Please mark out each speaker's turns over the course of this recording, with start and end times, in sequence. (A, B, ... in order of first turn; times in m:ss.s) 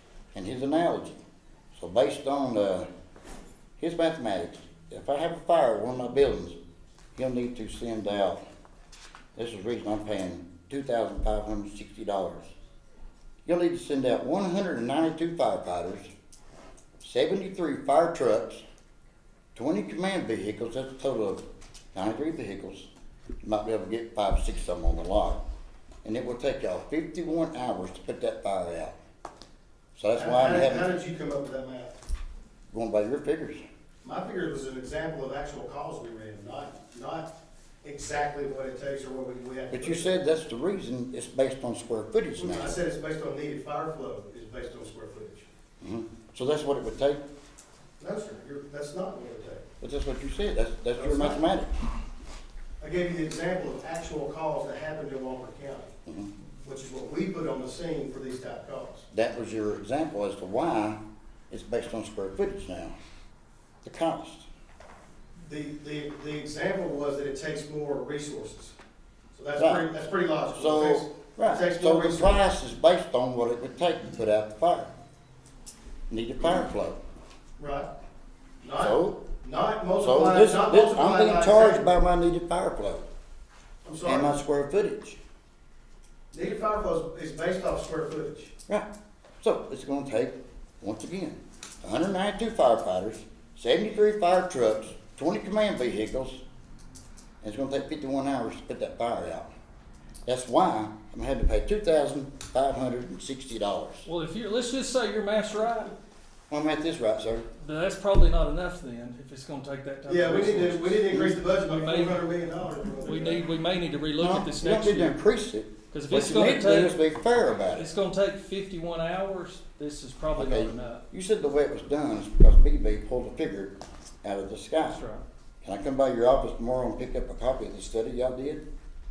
0:00.3-0:01.2 A
0:01.7-0:02.9 A
0:03.8-0:06.6 A
0:07.2-0:08.4 A
0:09.4-0:12.5 A
0:13.5-0:16.1 A
0:17.0-0:18.6 A
0:19.6-0:22.9 A
0:23.4-0:25.4 A
0:26.0-0:29.0 A
0:30.0-0:30.9 A
0:30.1-0:31.9 B
0:32.7-0:33.6 A
0:34.0-0:37.3 B
0:37.8-0:40.1 B
0:39.7-0:42.8 A
0:42.4-0:45.5 B
0:45.8-0:47.2 A
0:48.0-0:49.6 B
0:49.8-0:51.7 A
0:51.0-0:51.4 B
0:52.8-0:55.9 B
0:56.6-0:59.1 B
0:59.1-1:03.0 A
1:03.8-1:04.5 A
1:05.4-1:08.8 B
1:09.3-1:12.4 B
1:09.6-1:09.8 A
1:10.5-1:14.9 A
1:16.1-1:17.0 A
1:17.6-1:17.9 B
1:18.6-1:21.9 B
1:18.8-1:19.2 A
1:20.0-1:23.0 A
1:23.8-1:24.4 B
1:24.0-1:25.2 A
1:26.3-1:28.6 B
1:29.4-1:36.4 A
1:37.4-1:39.5 A
1:40.2-1:44.1 A
1:44.0-1:45.9 C
1:46.5-1:47.5 A
1:47.6-1:52.2 C
1:50.1-1:53.5 B
1:53.0-1:55.2 C
1:54.2-1:57.9 A
1:55.9-1:57.0 C
1:57.6-2:01.0 C
2:00.3-2:05.0 A
2:04.8-2:05.2 C
2:05.6-2:08.6 A